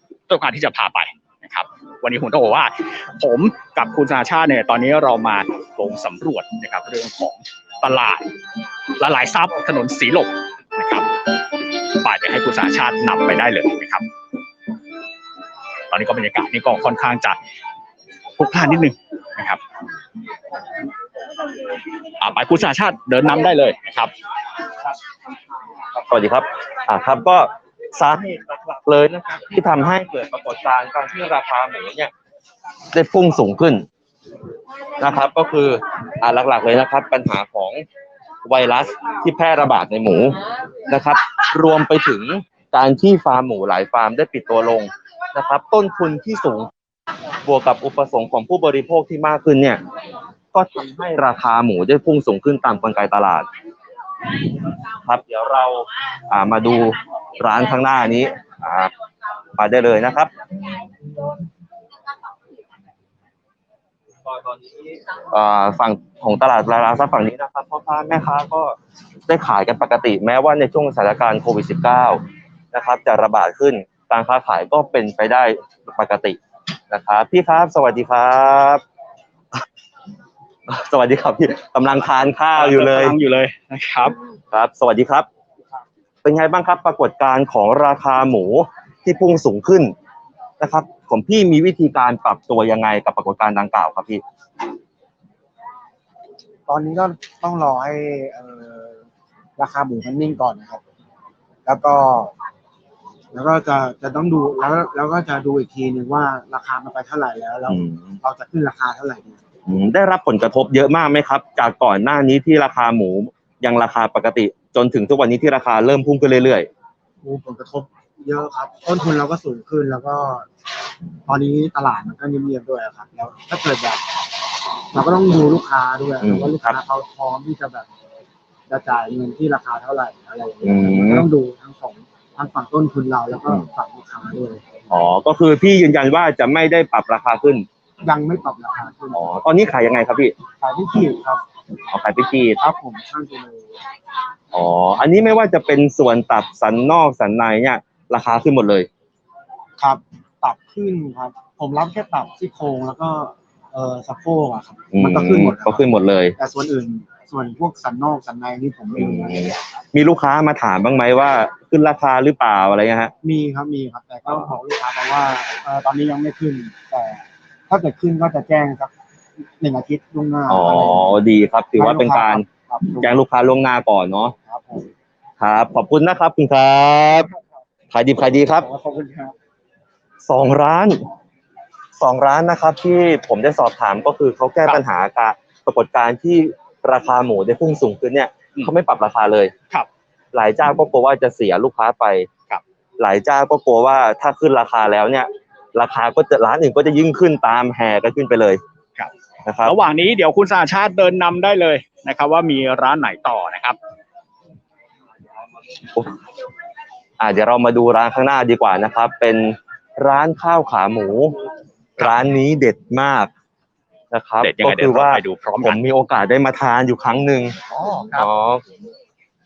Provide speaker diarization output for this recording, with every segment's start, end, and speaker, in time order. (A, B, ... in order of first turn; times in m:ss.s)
0:00.3-0:08.3 A
0:09.0-0:11.1 A
0:11.9-0:14.1 A
0:15.9-0:17.4 A
0:18.4-0:19.6 A
0:22.2-0:24.1 A
0:25.9-0:32.1 B
0:32.9-0:33.9 B
0:35.0-0:37.8 B
0:38.4-0:46.7 B
0:47.4-0:49.8 B
0:50.5-0:53.5 B
0:55.0-0:58.9 B
0:59.6-1:00.3 B
1:04.2-1:08.8 B
1:09.3-1:16.4 B
1:16.9-1:18.8 B
1:20.7-1:23.2 B
1:22.5-1:24.2 A
1:24.5-1:25.3 B
1:26.2-1:29.9 B
1:30.6-1:34.2 B
1:36.7-1:39.0 C
1:39.6-1:40.8 C
1:41.6-1:42.3 C
1:43.3-1:49.4 C
1:47.7-1:48.2 B
1:49.7-1:56.7 B
1:57.2-2:00.5 C
2:01.3-2:04.0 C
2:04.9-2:07.9 C
2:06.2-2:06.8 B
2:08.7-2:14.8 C
2:10.6-2:11.3 B
2:14.9-2:17.6 B
2:18.0-2:19.3 C
2:19.1-2:20.4 B
2:20.6-2:21.4 C
2:21.9-2:22.6 B
2:22.6-2:23.8 C
2:24.5-2:28.9 B
2:29.8-2:39.6 C
2:34.9-2:36.4 B
2:39.0-2:43.1 B
2:43.2-2:48.9 C
2:49.6-2:51.1 C
2:50.5-2:52.4 B
2:51.8-2:53.2 C
2:53.0-2:54.4 B
2:54.4-2:54.9 C
2:55.4-2:57.3 B
2:57.9-2:58.7 B
2:58.5-2:59.4 C
3:00.2-3:01.0 B
3:02.0-3:09.5 B
3:10.3-3:12.3 B
3:13.0-3:18.6 B
3:19.4-3:19.8 B
3:19.6-3:23.8 A
3:27.2-3:31.4 B
3:32.0-3:33.3 B
3:34.1-3:38.6 B
3:34.4-3:35.8 A
3:37.8-3:38.3 A